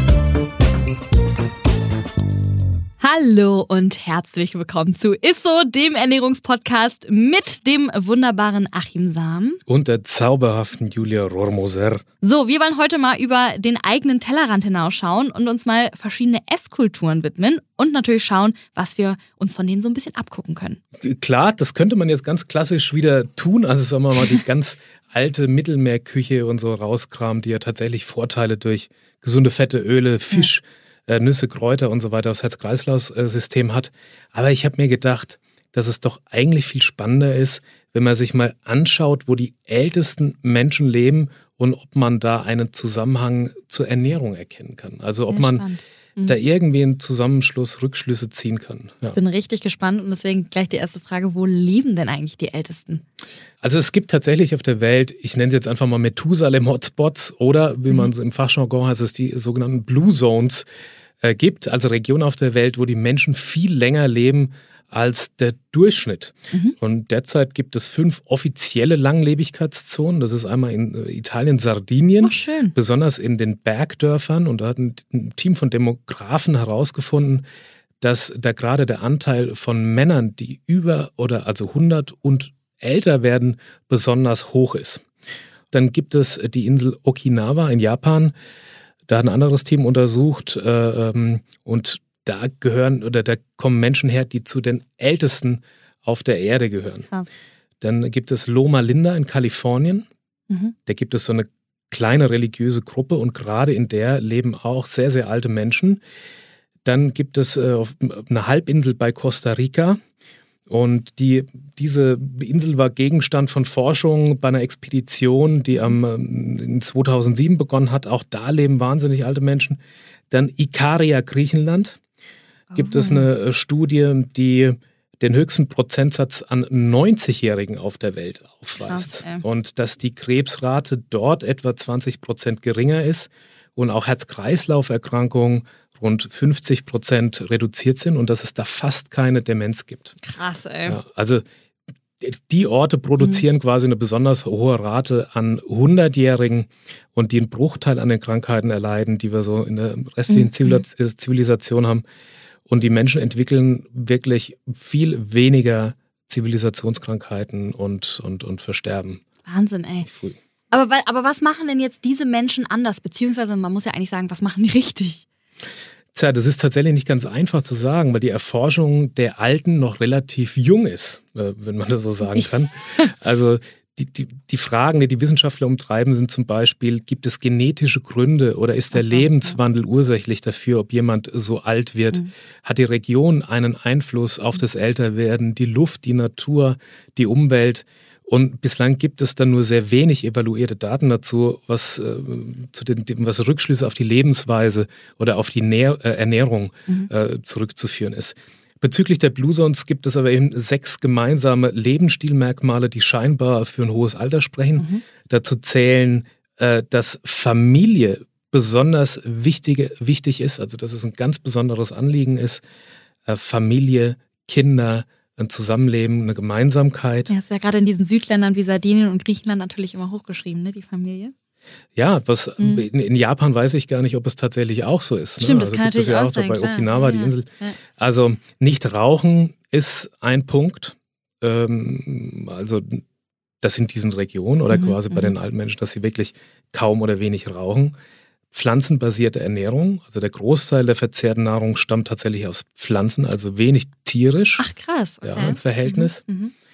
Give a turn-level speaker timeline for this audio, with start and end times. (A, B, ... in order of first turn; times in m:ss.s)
0:03.0-0:09.6 A
0:09.7-0:12.0 B
0:12.2-0:20.8 A
0:21.0-0:45.6 B
0:45.3-0:46.4 A
0:46.2-0:49.2 B
0:49.1-0:53.0 A
0:53.6-1:00.6 B
1:01.2-1:17.4 B
1:12.2-1:12.7 A
1:18.0-1:25.0 B
1:25.7-1:28.3 B
1:29.1-1:37.1 B
1:37.8-1:40.0 B
1:40.5-1:40.7 A
1:40.8-1:46.0 B
1:46.8-1:50.0 B
1:50.7-1:59.8 B
2:00.3-2:02.0 B
2:02.7-2:03.3 A
2:02.7-2:20.2 B
2:08.8-2:09.4 A
2:20.2-2:21.0 A
2:20.8-2:21.4 B
2:22.2-2:32.0 B
2:30.3-2:30.8 A
2:32.7-2:39.2 B
2:39.4-2:40.1 A
2:40.0-2:40.4 B
2:40.7-2:45.2 A
2:46.1-3:32.6 B
2:52.3-2:53.1 A
2:58.9-2:59.6 A
3:24.8-3:25.0 A
3:33.2-3:37.3 B
3:37.3-3:41.3 A
3:42.0-3:53.0 B
3:42.6-3:42.8 A
3:45.4-3:47.8 A
3:53.6-3:57.9 B
3:54.7-3:55.3 A
3:58.5-4:04.6 B
4:04.6-4:06.5 A
4:05.2-4:06.2 B